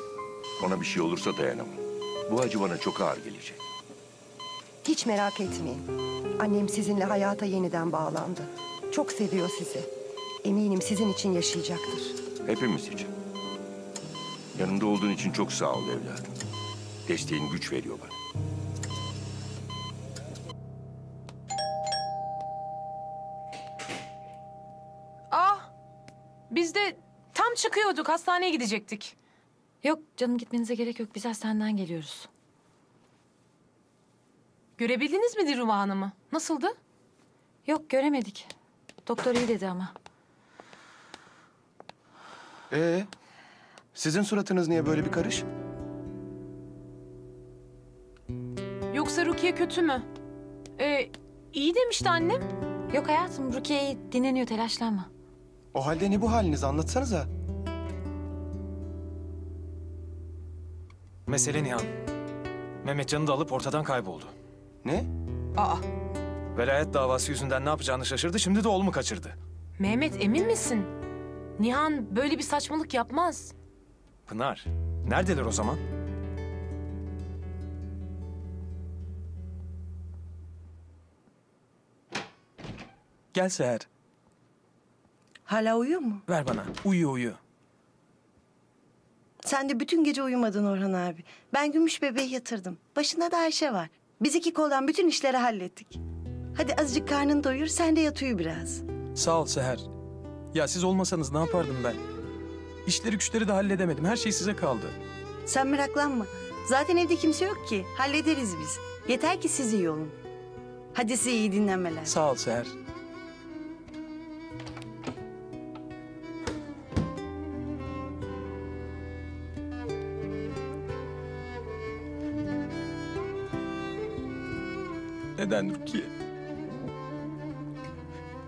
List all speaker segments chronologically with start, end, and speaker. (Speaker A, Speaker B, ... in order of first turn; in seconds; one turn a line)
Speaker A: 0.6-3.6
Speaker B: 4.8-9.9
Speaker B: 10.4-12.2
Speaker A: 12.4-13.1
Speaker A: 14.5-16.3
Speaker A: 17.1-18.1
Speaker C: 25.3-25.7
Speaker C: 26.5-29.1
Speaker D: 29.8-32.3
Speaker C: 34.8-36.7
Speaker D: 37.6-38.5
Speaker D: 39.0-39.9
Speaker E: 42.7-43.1
Speaker E: 43.9-45.5
Speaker C: 48.9-50.0
Speaker C: 50.8-52.5
Speaker D: 52.9-55.1
Speaker E: 55.7-57.3
Speaker F: 61.3-61.9
Speaker F: 62.8-64.3
Speaker C: 65.6-65.8
Speaker F: 66.5-69.3
Speaker C: 69.8-70.9
Speaker C: 71.6-73.5
Speaker F: 74.3-75.8
Speaker G: 83.3-83.9
Speaker H: 85.5-86.1
Speaker G: 86.3-87.4
Speaker H: 89.5-95.9
Speaker H: 96.6-98.8
Speaker G: 99.1-99.9
Speaker G: 100.5-102.0
Speaker G: 102.8-105.0
Speaker H: 105.5-110.1
Speaker H: 111.0-111.8
Speaker G: 112.0-112.7
Speaker G: 125.3-126.1